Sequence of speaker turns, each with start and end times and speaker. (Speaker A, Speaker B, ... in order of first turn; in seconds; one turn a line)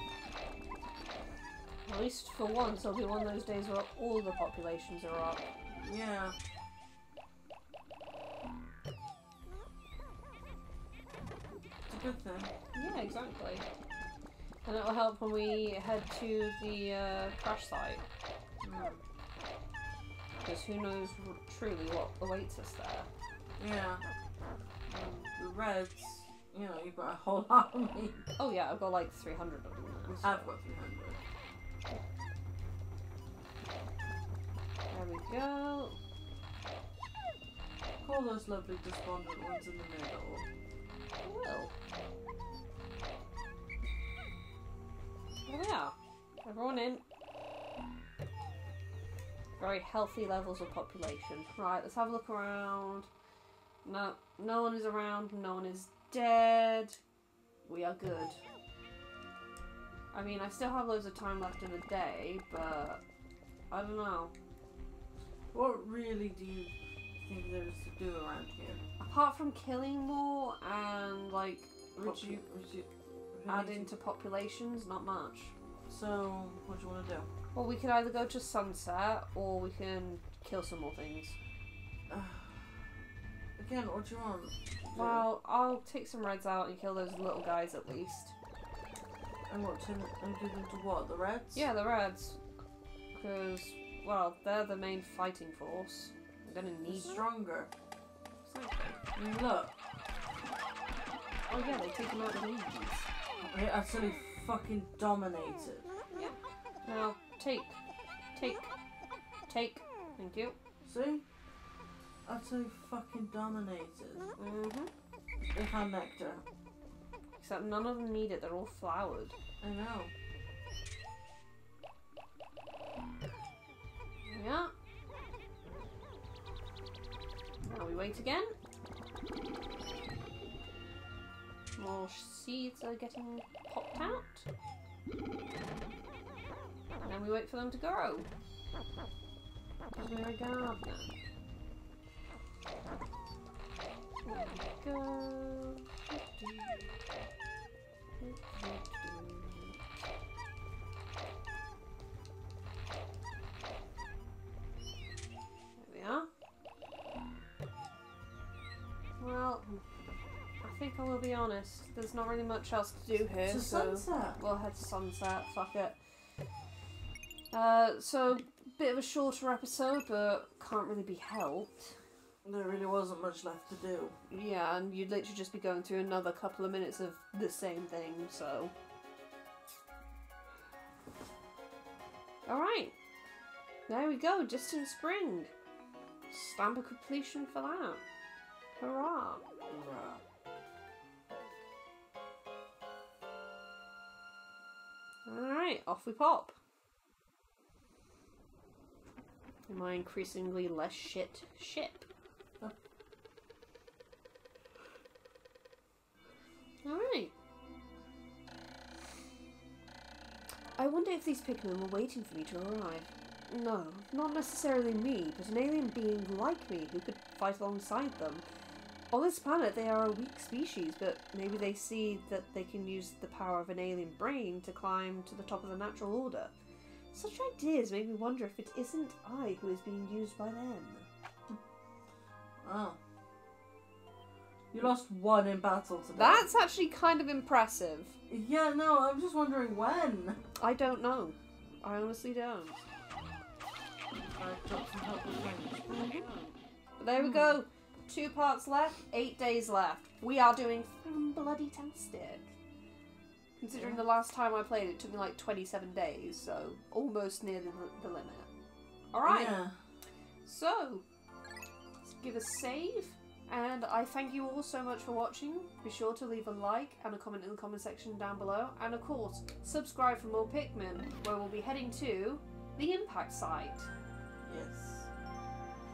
Speaker A: 1.9-5.5
Speaker B: 5.8-6.3
Speaker B: 11.9-12.5
Speaker A: 12.7-13.7
Speaker A: 14.6-18.0
Speaker B: 18.6-19.0
Speaker A: 20.4-23.1
Speaker B: 23.6-24.0
Speaker B: 24.9-28.2
Speaker A: 28.4-30.5
Speaker B: 30.2-31.2
Speaker A: 34.9-36.0
Speaker B: 38.0-40.5
Speaker A: 41.2-41.7
Speaker A: 45.5-47.0
Speaker A: 49.6-53.1
Speaker A: 53.8-57.0
Speaker A: 57.6-58.4
Speaker A: 60.1-63.0
Speaker A: 63.7-64.3
Speaker B: 65.5-68.8
Speaker A: 69.0-72.8
Speaker B: 72.0-73.9
Speaker A: 73.5-75.5
Speaker B: 75.9-77.3
Speaker A: 77.5-81.4
Speaker B: 82.1-82.8
Speaker B: 83.6-85.3
Speaker A: 84.9-88.3
Speaker B: 89.5-91.7
Speaker A: 91.5-92.4
Speaker A: 93.1-97.2
Speaker B: 96.9-97.7
Speaker A: 98.4-99.0
Speaker B: 99.1-99.8
Speaker A: 101.5-103.1
Speaker B: 103.4-105.9
Speaker A: 106.1-107.8
Speaker A: 108.3-108.7
Speaker A: 109.5-110.6
Speaker B: 110.8-111.2
Speaker B: 112.2-114.3
Speaker A: 114.4-114.9
Speaker B: 115.5-116.4
Speaker A: 117.4-119.3
Speaker B: 119.6-120.1
Speaker A: 124.3-124.7
Speaker A: 127.6-128.5
Speaker A: 131.8-134.4
Speaker A: 137.0-138.3
Speaker A: 139.9-141.1
Speaker A: 144.2-146.9
Speaker A: 148.2-149.8
Speaker A: 155.8-156.3
Speaker A: 159.2-159.8
Speaker A: 160.6-166.0
Speaker B: 163.4-164.4
Speaker A: 167.5-172.0
Speaker B: 172.4-174.2
Speaker A: 174.3-178.7
Speaker A: 182.4-182.9
Speaker A: 183.9-185.5
Speaker A: 186.3-188.0
Speaker A: 188.8-189.4
Speaker B: 189.7-190.2
Speaker A: 195.2-196.6
Speaker A: 199.7-202.1
Speaker A: 206.8-207.3
Speaker A: 210.8-218.4
Speaker A: 219.1-226.5
Speaker A: 227.1-231.1
Speaker B: 232.6-233.0
Speaker B: 234.7-236.5
Speaker A: 236.1-238.1
Speaker B: 238.3-240.4
Speaker A: 240.6-242.8
Speaker B: 244.1-245.9
Speaker A: 245.9-252.5
Speaker B: 247.2-247.6
Speaker A: 253.6-258.5
Speaker B: 253.7-254.0
Speaker A: 259.1-259.6
Speaker B: 259.2-259.8
Speaker A: 260.4-261.0
Speaker A: 262.0-273.9
Speaker B: 274.4-275.1